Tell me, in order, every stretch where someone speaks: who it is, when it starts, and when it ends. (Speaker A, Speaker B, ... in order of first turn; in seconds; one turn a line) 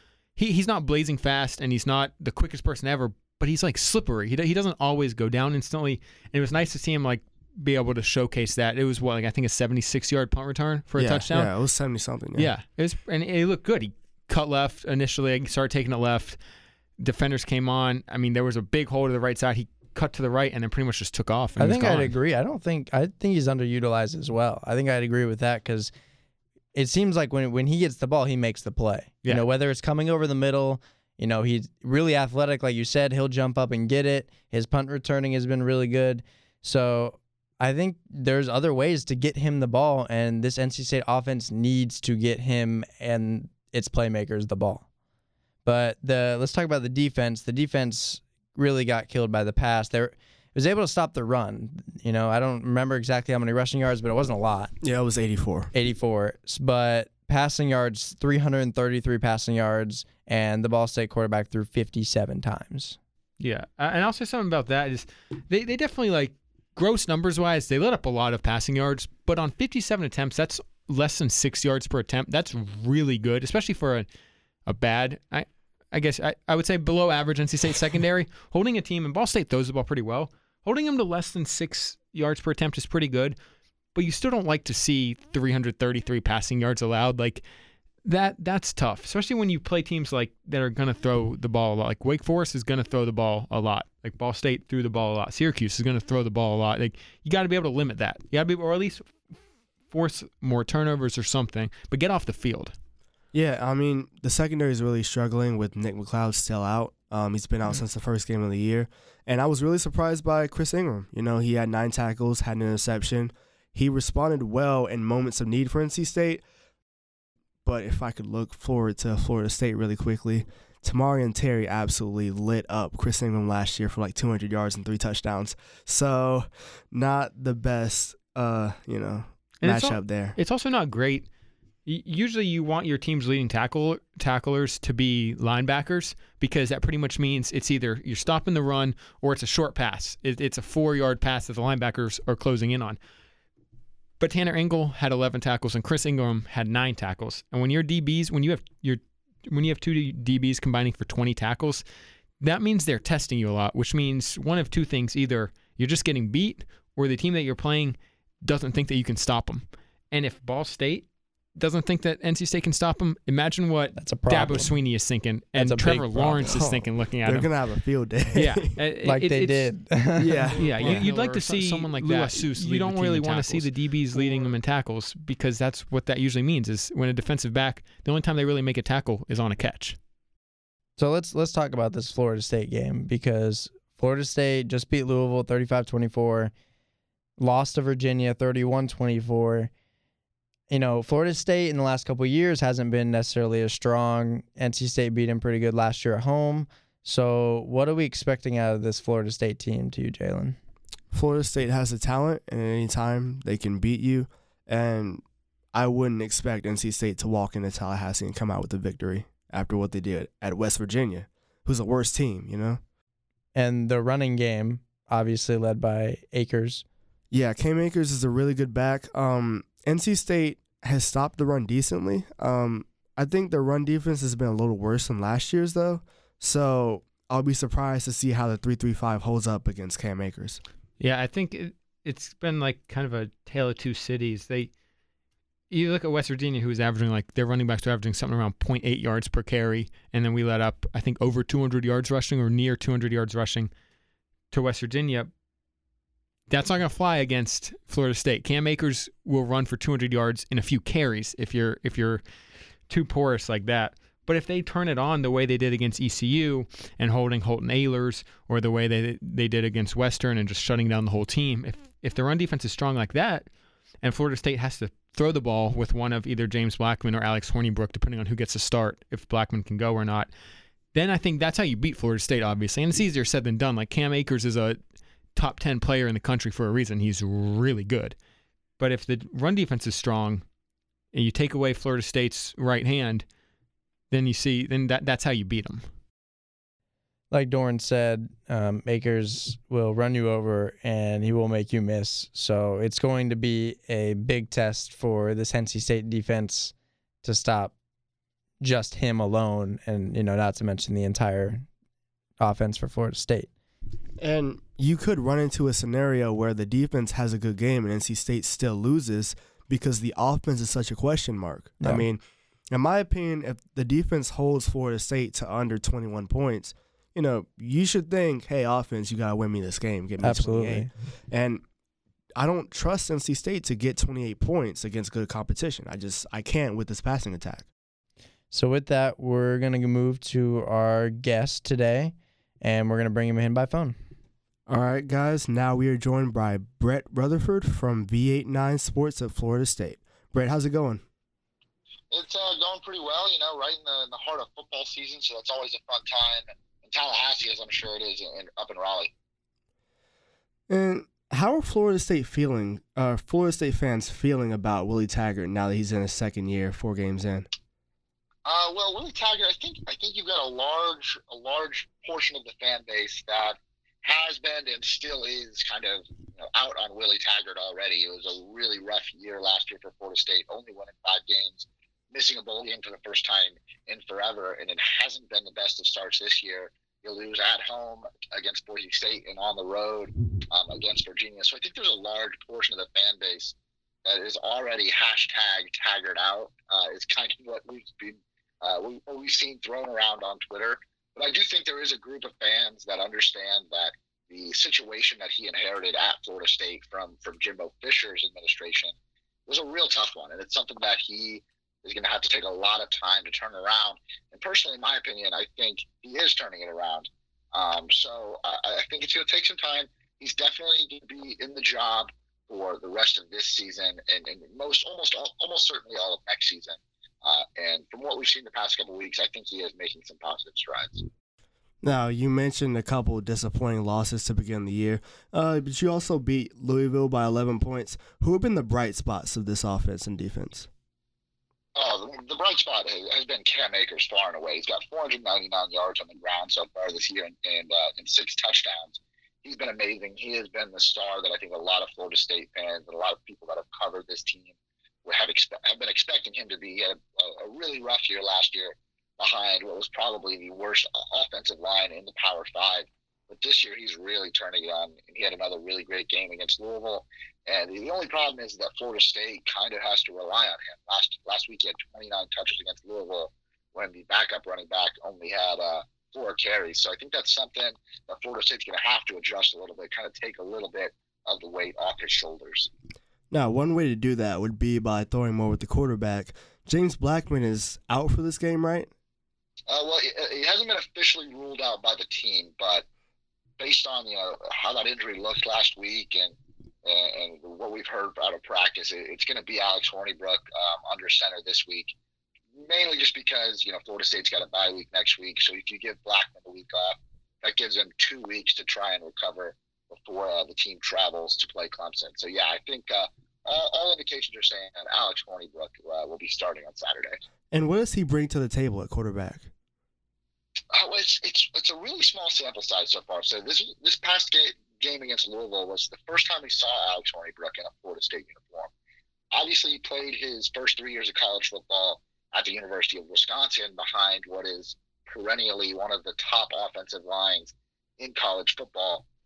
Speaker A: 0.3-11.5
Speaker B: 10.9-12.5
Speaker A: 12.3-16.4
Speaker A: 17.0-22.1
Speaker C: 21.6-25.9
Speaker C: 26.7-44.9
Speaker C: 45.6-54.7
Speaker B: 54.8-55.7
Speaker C: 55.7-63.0
Speaker A: 63.4-74.1
Speaker A: 74.7-83.4
Speaker A: 83.9-87.4
Speaker A: 88.0-99.2
Speaker A: 99.9-102.7
Speaker B: 103.3-116.4
Speaker B: 117.6-130.3
Speaker A: 129.6-131.3
Speaker A: 131.8-143.0
Speaker A: 144.2-151.8
Speaker A: 152.4-167.5
Speaker C: 163.9-164.8
Speaker C: 165.6-166.5
Speaker B: 166.4-168.8
Speaker A: 168.3-169.7
Speaker C: 169.0-174.4
Speaker B: 170.2-171.1
Speaker A: 170.5-180.0
Speaker C: 181.0-186.5
Speaker C: 187.4-189.7
Speaker C: 190.7-200.6
Speaker B: 201.1-205.2
Speaker B: 205.7-212.8
Speaker C: 213.5-216.8
Speaker B: 217.3-230.6
Speaker A: 231.0-234.7
Speaker A: 235.7-243.7
Speaker A: 244.5-245.3
Speaker A: 246.5-252.2
Speaker A: 252.9-263.5
Speaker A: 264.0-270.3
Speaker A: 270.9-274.8
Speaker A: 275.3-278.1
Speaker A: 278.8-280.4
Speaker A: 281.1-283.2
Speaker A: 284.1-285.8
Speaker C: 287.3-297.7
Speaker C: 298.6-301.7
Speaker C: 302.4-303.5
Speaker B: 304.2-321.6
Speaker C: 311.8-312.1
Speaker C: 320.2-320.9
Speaker B: 322.4-327.7
Speaker C: 328.5-333.9
Speaker B: 334.7-341.0
Speaker D: 342.1-349.1
Speaker B: 350.7-357.5
Speaker D: 358.4-398.9
Speaker D: 399.5-421.1
Speaker B: 421.8-430.7
Speaker D: 431.7-444.5
Speaker D: 445.0-472.7
Speaker B: 473.3-478.9
Speaker D: 479.7-482.8
Speaker D: 483.6-491.9
Speaker D: 492.6-507.2
Speaker B: 507.5-509.5
Speaker D: 510.7-518.7
Speaker D: 519.3-529.0